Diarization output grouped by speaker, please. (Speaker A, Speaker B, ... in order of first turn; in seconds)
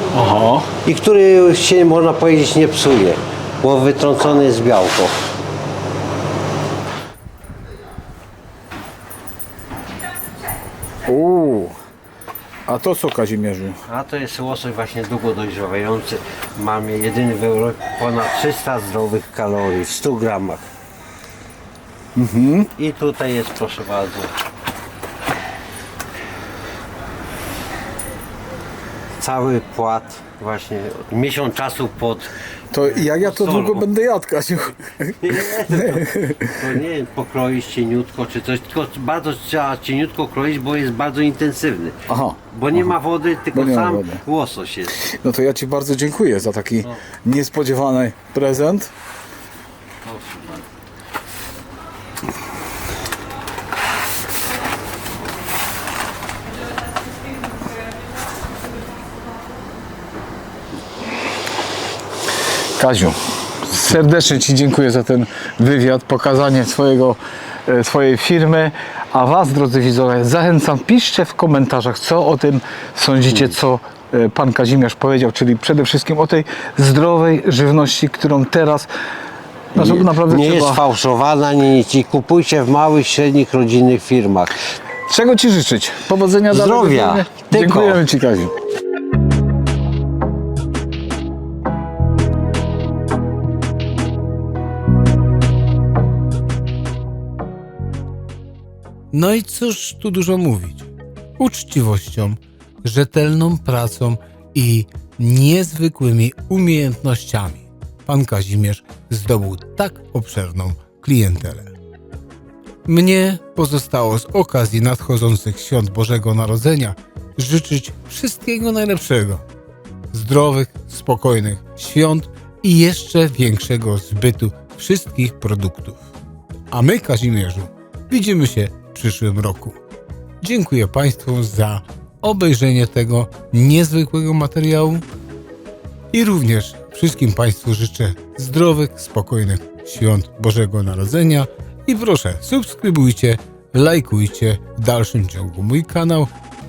Speaker A: 0.1-0.7, 11.1-11.7, 12.7-13.8, 22.1-22.7, 32.7-36.6, 42.1-42.8, 43.5-44.2, 45.0-48.9, 62.8-78.9, 79.7-80.8, 85.1-88.6
Speaker B: 0.8-5.1, 13.9-20.6, 22.8-24.3, 29.2-32.3, 32.9-33.9, 35.2-45.0, 50.0-50.6, 79.8-84.6, 86.5-88.0
Speaker C: 99.1-111.7, 112.8-119.4, 120.1-126.0, 126.7-129.8, 130.4-135.0, 136.1-146.3